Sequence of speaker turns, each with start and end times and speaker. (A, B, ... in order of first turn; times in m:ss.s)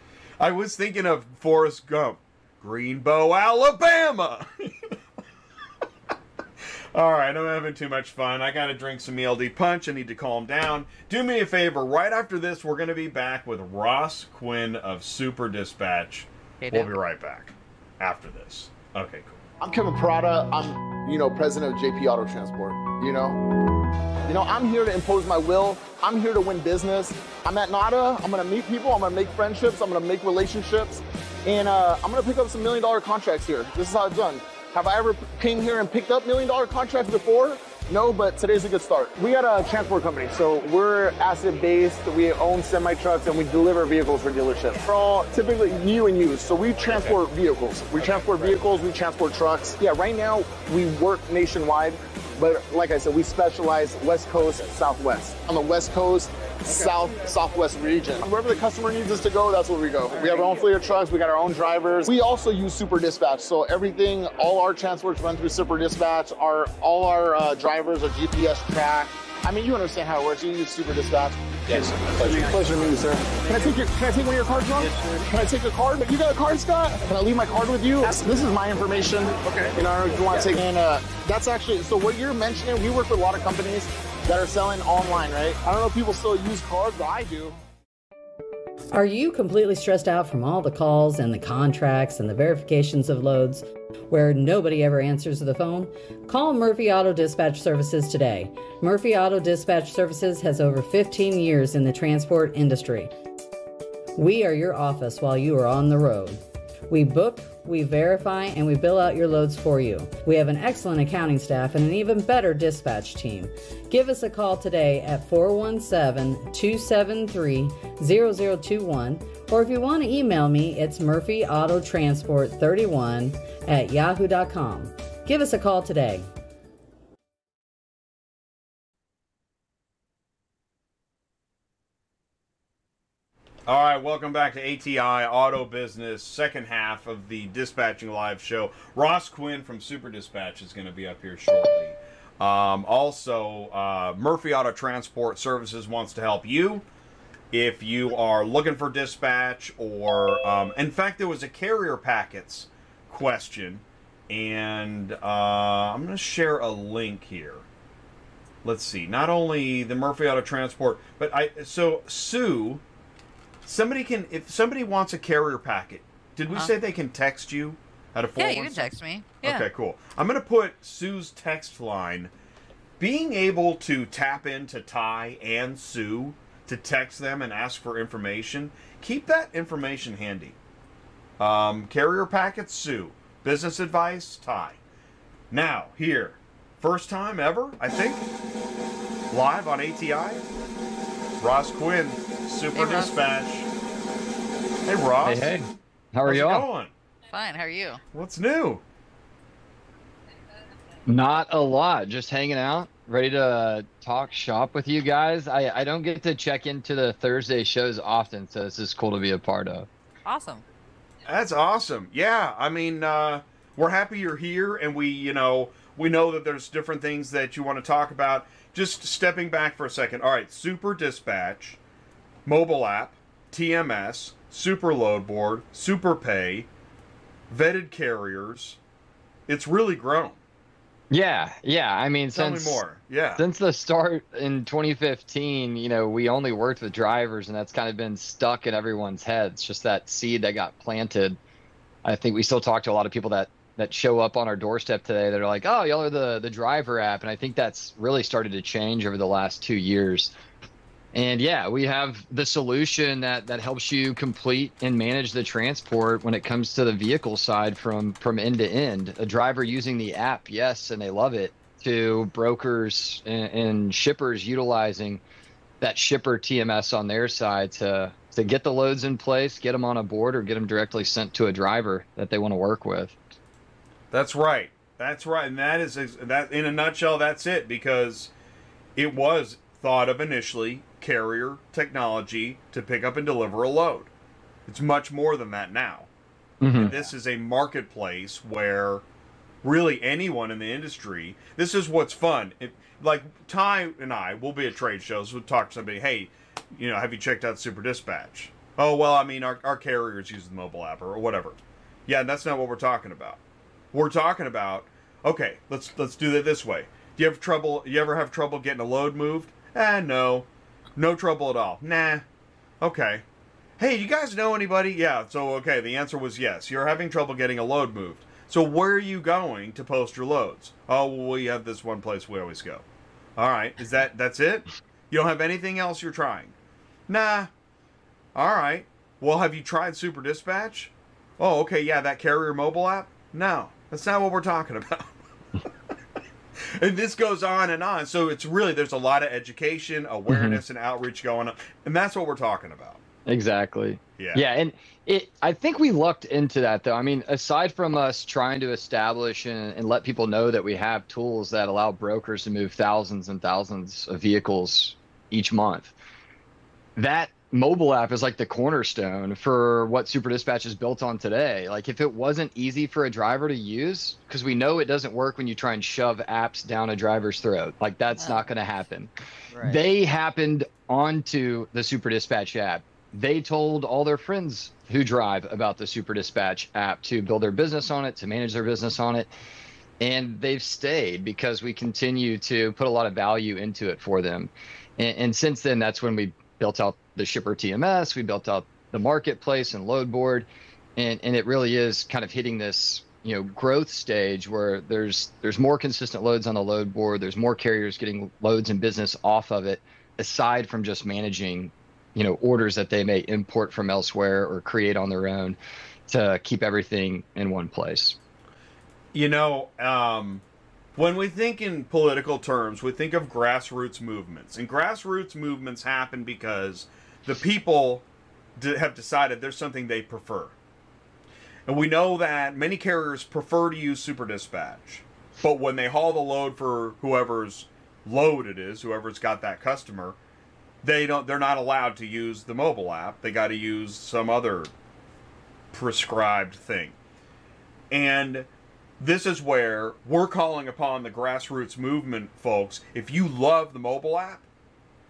0:00.4-0:05.0 A
0:06.9-0:19.4 A
0:16.6-0:16.9 B
0:19.6-0:23.4 C
0:24.3-1:27.6 C
1:28.9-1:43.1 D
1:44.2-2:06.3 D
2:13.7-2:26.8 A
2:27.5-2:37.7 A
2:38.6-2:42.8 A
2:43.6-2:48.9 A
2:48.4-2:49.7 B
2:49.4-2:52.3 A
2:53.0-3:00.6 A
3:01.4-3:04.8 A
3:05.5-3:08.3 A
3:09.3-3:10.5 A
3:11.4-3:13.7 A
3:12.7-3:13.3 B
3:14.8-3:15.6 A
3:15.2-3:16.6 E
3:16.2-3:16.9 A
3:17.3-3:18.0 B
3:18.1-3:18.8 A
3:21.0-3:29.9 E
3:30.2-3:30.6 B
3:31.2-3:41.8 A
3:42.4-3:46.7 A
3:47.5-3:48.8 A
3:49.5-3:50.4 A
3:51.1-3:52.8 E
3:52.3-3:53.4 A
3:53.4-4:01.4 E
4:02.0-4:10.3 E
4:11.1-4:25.2 E
4:25.8-4:33.2 E
4:34.1-4:38.3 A
4:39.0-4:44.1 A
4:44.7-4:46.1 A
4:46.6-4:46.9 E
4:46.7-4:49.0 A
4:49.6-5:03.4 A
5:03.9-5:12.2 A
5:12.8-5:13.2 A
5:13.8-5:22.8 A
5:23.4-5:26.5 A
5:27.1-5:27.5 A
5:28.3-5:35.2 A
5:36.6-5:43.0 A
5:40.3-5:40.6 E
5:43.3-5:55.9 E
5:44.2-5:44.4 A
5:57.0-6:09.1 E
6:08.1-6:08.4 B
6:09.5-6:09.8 B
6:09.6-6:19.3 E
6:20.0-6:45.6 E
6:46.1-6:48.2 E
6:49.1-6:50.4 A
6:51.0-6:58.0 A
6:58.6-7:00.5 A
7:01.6-7:10.2 A
7:10.8-7:14.7 A
7:15.7-7:17.0 A
7:17.9-7:18.5 A
7:19.0-7:24.4 A